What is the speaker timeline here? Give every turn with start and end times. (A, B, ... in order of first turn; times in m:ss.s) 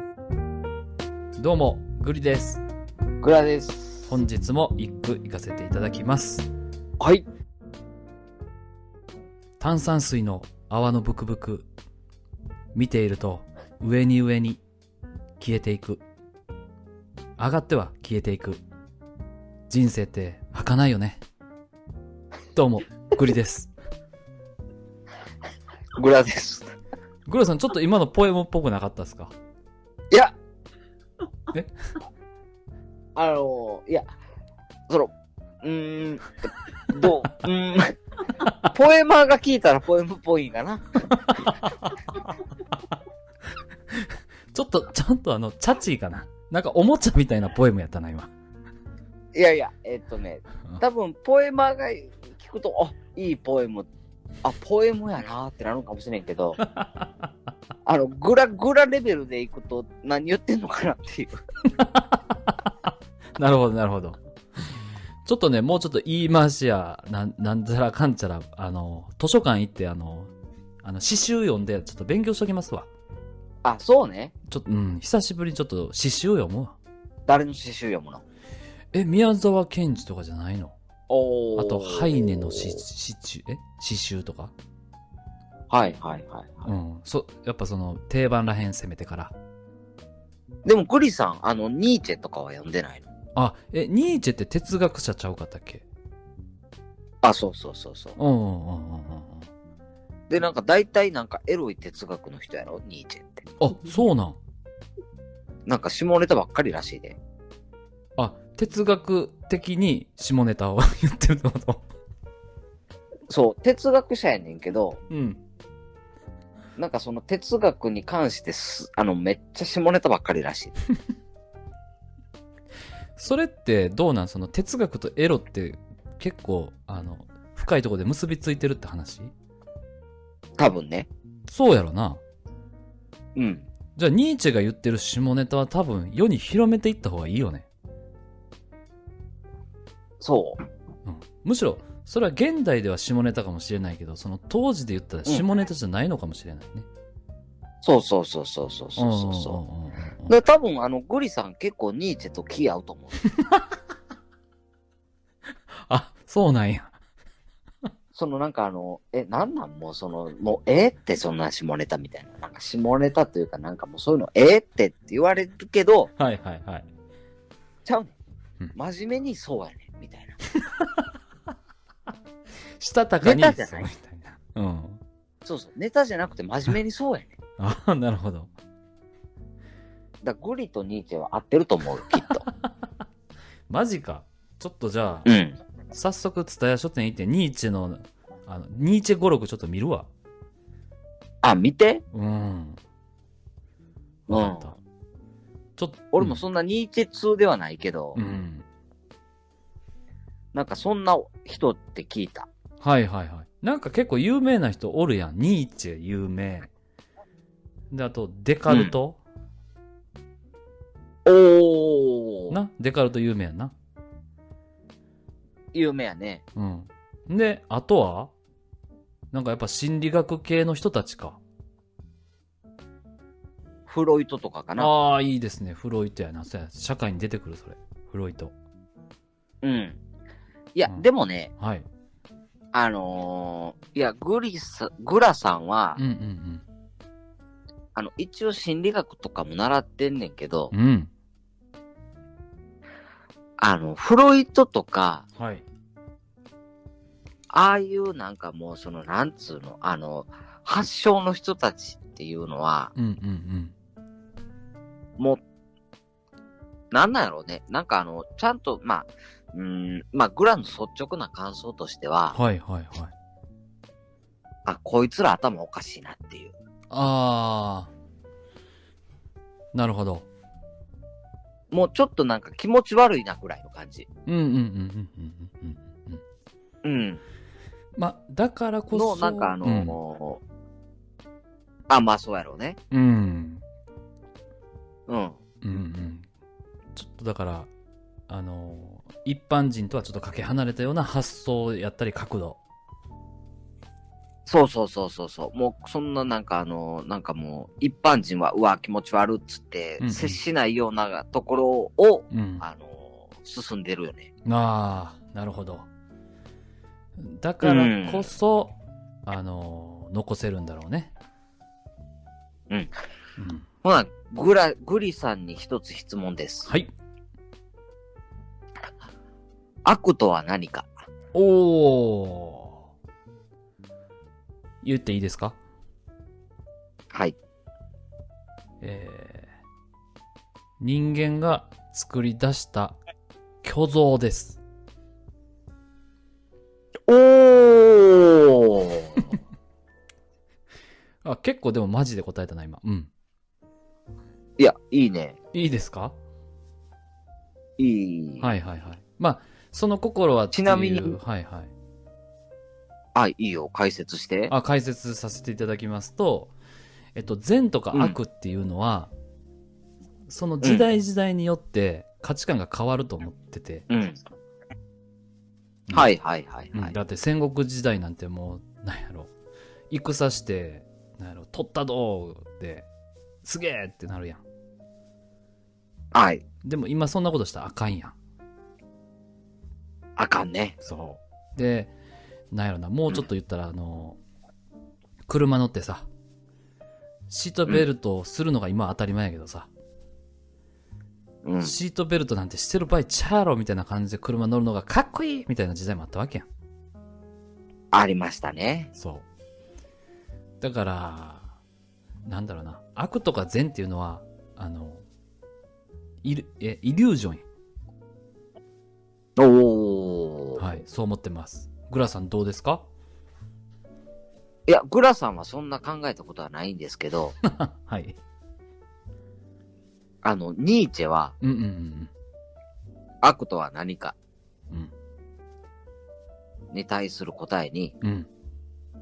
0:01.4-0:02.6 A
0:03.2-0:04.2 B
0:04.1-0:06.5 A
0:07.0-0:07.2 B
0:09.6-0:11.7 A
0:12.7-0:14.6 A
0:15.4-0:16.0 A
0:17.4-0:18.6 A
0:19.7-0:21.2 A
0:22.5-0:23.7 A
0:26.0-0:26.7 B
0:27.3-0:29.3 A
0:33.1-0:34.1 B
0:35.6-0:38.0 B
0:38.7-0:41.2 B
0:41.3-0:42.0 A
0:43.9-0:48.3 A
0:49.3-0:53.9 B
0:54.4-0:56.6 B
0:56.8-0:57.0 A
0:57.8-1:01.4 B
1:01.8-1:02.4 A
1:03.4-1:04.2 A
1:05.2-1:10.3 A
1:10.8-1:12.9 A
1:13.6-1:14.3 B
1:14.5-1:16.8 A
1:17.3-1:18.2 B
1:18.9-1:20.8 A
1:21.1-1:22.8 B
1:21.6-1:24.5 A
1:25.7-1:26.7 B
1:26.6-1:29.3 A
1:30.6-1:33.1 B
1:33.4-1:35.8 A
1:37.2-1:38.2 B
1:38.2-1:39.5 A
1:40.3-1:43.5 B
1:43.6-1:44.4 A
1:45.7-1:47.2 B
1:48.2-1:51.8 A
1:53.3-1:55.0 B
1:55.1-1:55.4 A
1:56.8-2:00.7 B
2:03.2-2:09.3 A
2:10.6-2:11.1 B
2:11.5-2:12.2 A
2:13.4-2:13.7 B
2:14.0-2:17.7 A
2:20.2-2:20.6 B
2:21.0-2:26.9 A
2:27.8-2:29.6 B
2:29.0-2:30.4 A
2:30.3-2:33.2 B
2:35.7-2:36.9 A
2:38.1-2:46.1 B
2:46.2-2:46.8 A
2:47.8-2:48.1 B
2:48.7-2:50.4 B
2:52.8-2:55.0 A
2:53.2-2:53.9 B
2:55.4-2:57.3 B
2:57.6-2:58.5 A
3:00.2-3:02.4 B
3:03.7-3:05.3 A
3:05.2-3:05.6 B
3:05.9-3:10.1 A
3:11.4-3:12.0 B
3:12.1-3:12.8 A
3:14.3-3:14.8 A
3:14.3-3:14.7 B
3:15.8-3:16.4 A
3:16.1-3:18.2 B
3:18.1-3:18.6 A
3:20.5-3:22.5 B
3:22.8-3:26.7 A
3:27.9-3:29.2 A
3:28.7-3:28.9 B
3:31.2-3:32.6 B
3:32.5-3:33.7 A
3:35.7-3:36.4 B
3:36.6-3:38.3 A
3:39.3-3:41.4 A
3:43.9-3:44.9 B
3:44.8-3:48.5 A
3:49.6-3:50.0 B
3:50.7-3:51.5 B
3:51.6-3:51.9 A
3:52.7-3:56.0 B
3:56.0-3:56.6 A
3:57.9-4:00.7 B
4:00.7-4:01.1 A
4:03.6-4:05.2 B
4:05.4-4:05.6 A
4:07.5-4:12.9 B
4:13.0-4:13.7 A
4:16.9-4:22.4 B
4:22.3-4:23.1 A
4:24.7-4:26.6 B
4:26.9-4:27.9 A
4:29.7-4:30.2 A
4:31.7-4:34.1 B
4:34.2-4:36.2 A
4:36.8-4:37.2 B
4:38.0-4:40.0 A
4:38.9-4:40.4 B
4:41.9-4:42.8 B
4:42.9-4:43.6 A
4:45.1-4:45.4 B
4:45.6-4:46.2 A
4:46.9-4:47.7 A
4:48.3-4:52.6 A
4:54.5-5:04.3 B
5:00.0-5:00.4 A
5:02.3-5:02.6 A
5:04.4-5:05.9 A
5:07.2-5:11.1 A
5:07.6-5:08.3 B
5:13.4-5:13.6 A
5:13.8-5:16.7 B
5:19.8-5:20.9 B
5:21.3-5:22.8 A
5:24.8-5:25.6 A
5:28.8-5:29.5 A
5:30.8-5:33.0 A
5:33.6-5:34.6 A
5:37.1-5:39.4 B
5:41.2-5:43.1 A
5:44.6-5:45.4 B
5:45.5-5:46.2 A
5:47.8-5:48.5 B
5:48.4-5:51.7 A
5:50.5-5:51.2 B
5:53.2-5:54.5 B
5:54.5-5:56.5 A
5:57.2-5:59.1 A
5:57.9-5:58.2 B
6:00.3-6:03.9 A
6:00.6-6:00.9 B
6:03.9-6:04.2 B
6:05.9-6:06.1 A
6:05.9-6:06.9 B
6:06.7-6:09.3 A
6:09.9-6:12.9 A
6:13.4-6:14.4 A
6:16.1-6:16.4 B
6:16.6-6:18.2 A
6:20.2-6:20.8 B
6:20.8-6:21.9 A
6:22.5-6:24.2 A
6:25.3-6:26.1 A
6:27.3-6:29.7 A
6:31.4-6:31.8 B
6:31.6-6:36.5 A
6:37.9-6:38.9 B
6:39.0-6:39.2 A
6:40.6-6:41.5 A
6:42.2-6:45.0 A
6:46.2-6:47.4 A
6:49.4-6:50.6 B
6:50.6-6:52.9 A
6:54.7-6:57.4 B
6:57.4-6:58.2 A
7:00.2-7:01.4 B
7:01.4-7:02.1 A
7:03.2-7:04.2 B
7:06.7-7:07.9 B
7:08.0-7:08.3 A